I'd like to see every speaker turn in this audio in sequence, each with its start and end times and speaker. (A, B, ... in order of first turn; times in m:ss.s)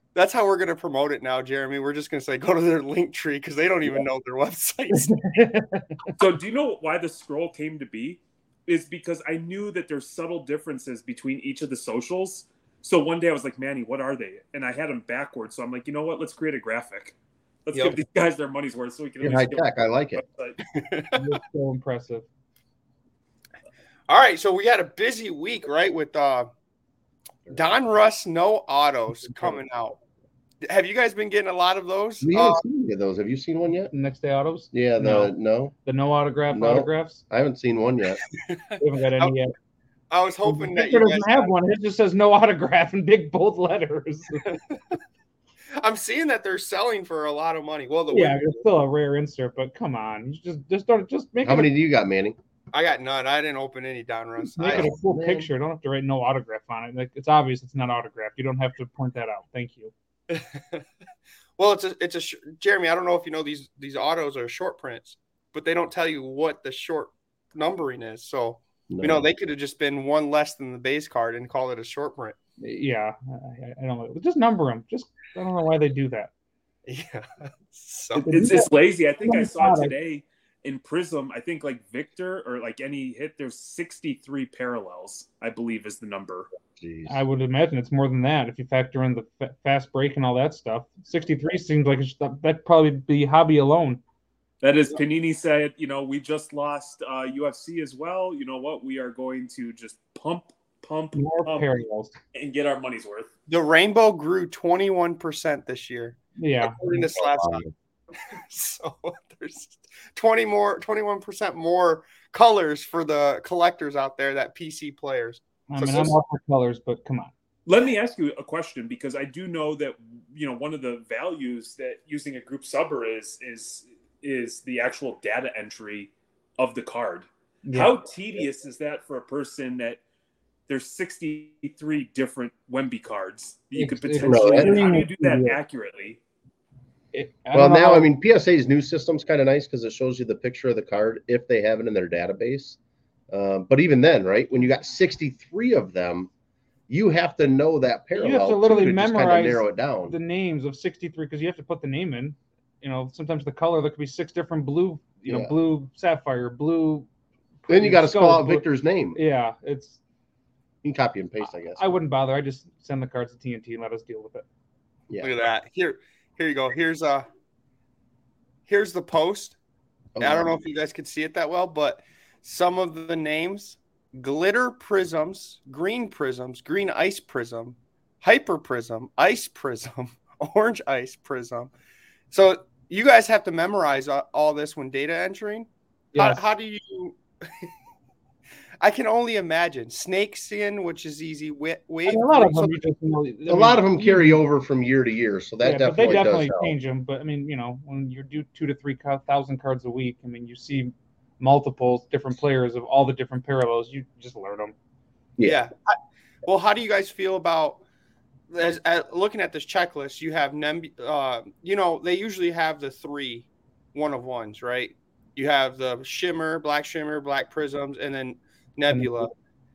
0:00.1-0:05.3 A
0:04.9-0:06.0 B
0:06.2-0:17.1 C
0:17.6-0:20.6 C
0:17.7-0:18.0 A
0:19.2-0:20.2 D
0:20.7-0:21.2 A
0:21.1-0:22.2 B
0:24.1-0:26.5 A
0:27.5-0:30.0 A
0:30.6-0:32.6 A
0:32.2-0:33.9 D
0:33.9-0:35.3 B
0:34.7-0:35.7 D
0:35.8-0:37.2 B
0:36.5-0:38.2 D
0:38.4-0:39.3 A
0:38.8-0:39.5 B
0:40.1-0:41.5 A
0:40.4-0:44.5 B
0:44.4-0:45.0 A
0:45.8-0:48.6 A
0:48.1-0:51.7 B
0:51.4-0:52.4 D
0:52.7-0:55.0 A
0:54.6-0:59.9 B
0:54.6-0:55.5 D
1:00.3-1:00.8 A
1:01.6-1:12.4 A
1:08.9-1:09.3 D
1:12.6-1:16.3 B
1:16.8-1:18.3 A
1:18.3-1:19.9 B
1:18.3-1:26.5 C
1:26.8-1:27.2 D
1:27.1-1:34.0 B
1:34.6-1:41.7 C
1:41.1-1:42.1 B
1:42.3-1:43.3 C
1:43.5-1:47.6 A
1:46.4-1:46.8 B
1:46.9-1:47.7 D
1:48.1-1:56.1 A
1:55.7-1:57.3 B
1:57.6-2:10.0 C
2:07.6-2:07.9 B
2:10.7-2:16.2 C
2:13.7-2:15.6 B
2:14.2-2:15.1 D
2:17.1-2:18.1 B
2:17.5-2:22.8 D
2:23.3-2:26.3 D
2:26.9-2:30.1 D
2:28.1-2:37.1 B
2:37.6-2:40.0 B
2:37.7-2:39.2 D
2:40.8-2:42.0 D
2:41.7-2:44.4 B
2:45.2-2:47.2 A
2:48.7-2:49.6 A
2:50.2-2:50.5 D
2:50.2-3:01.7 A
3:02.3-3:07.7 A
3:06.1-3:06.4 B
3:08.8-3:12.8 A
3:12.1-3:14.4 B
3:13.5-3:16.7 D
3:15.6-3:24.7 B
3:25.4-3:27.8 A
3:28.5-3:39.3 A
3:38.9-3:39.3 B